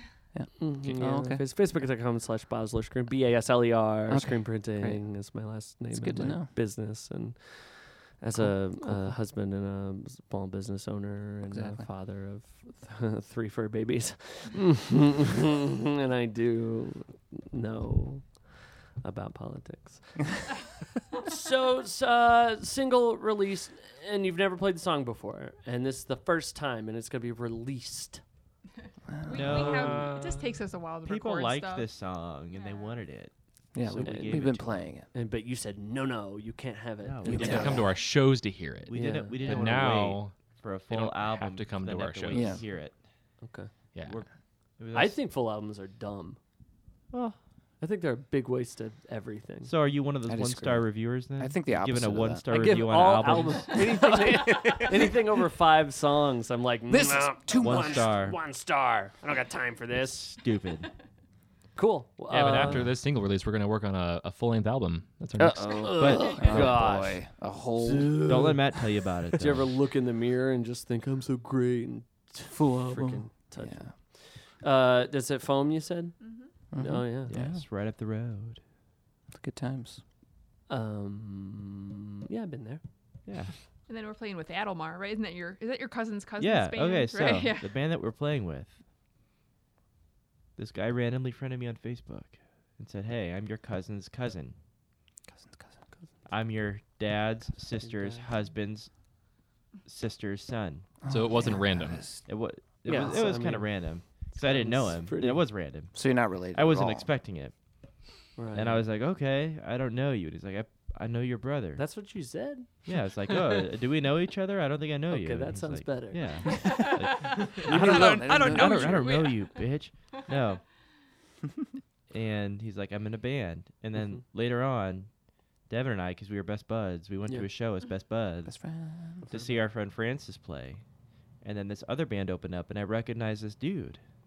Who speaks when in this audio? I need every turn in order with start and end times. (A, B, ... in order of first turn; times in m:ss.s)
0:00.3-0:01.4 A
0:00.6-0:18.3 B
0:04.1-0:05.0 A
0:05.9-0:06.5 A
0:08.4-0:09.2 A
0:11.5-0:11.9 A
0:19.0-0:20.4 B
0:21.1-0:28.2 B
0:29.1-0:29.7 A
0:29.3-0:31.9 C
0:29.3-0:30.2 D
0:29.5-0:30.5 B
0:31.0-0:34.9 D
0:32.5-0:33.0 C
0:33.7-0:35.1 A
0:33.9-0:34.6 B
0:35.1-0:37.8 B
0:37.0-0:37.9 D
0:37.2-0:37.9 A
0:37.3-0:42.6 E
0:38.9-0:43.0 D
0:38.9-0:39.6 B
0:42.3-0:42.6 A
0:43.4-0:43.7 B
0:43.9-0:44.2 E
0:44.0-0:45.2 D
0:44.9-0:46.4 B
0:47.1-0:47.4 D
0:47.8-0:49.7 B
0:49.6-0:54.1 D
0:50.3-0:53.2 A
0:52.5-1:00.3 B
0:53.7-0:55.2 A
0:56.9-0:58.1 A
0:57.5-0:58.4 D
1:00.0-1:00.9 D
1:01.8-1:02.9 B
1:02.3-1:05.8 E
1:05.4-1:08.2 A
1:05.8-1:07.2 B
1:06.0-1:06.8 D
1:07.8-1:16.2 B
1:08.2-1:09.7 D
1:13.6-1:13.9 A
1:16.2-1:16.5 C
1:16.7-1:17.6 A
1:16.8-1:17.3 B
1:17.3-1:18.6 D
1:19.3-1:20.0 A
1:20.7-1:22.8 B
1:23.3-1:23.5 D
1:23.9-1:27.8 C
1:26.4-1:28.8 D
1:30.6-1:34.6 D
1:35.3-1:35.8 A
1:36.3-1:38.9 D
1:37.8-1:38.2 B
1:39.9-1:40.9 D
1:41.0-1:42.3 A
1:41.1-1:42.0 E
1:42.3-1:47.6 D
1:42.8-1:45.4 B
1:45.9-1:47.1 A
1:48.4-1:48.8 B
1:48.5-1:51.8 D
1:51.8-1:52.9 B
1:52.9-2:00.6 D
1:55.1-1:56.6 B
1:56.4-2:00.2 C
1:57.5-1:59.2 A
2:02.1-2:05.1 D
2:05.7-2:08.6 D
2:08.4-2:09.2 A
2:09.2-2:09.7 B
2:09.3-2:10.8 D
2:11.4-2:14.0 D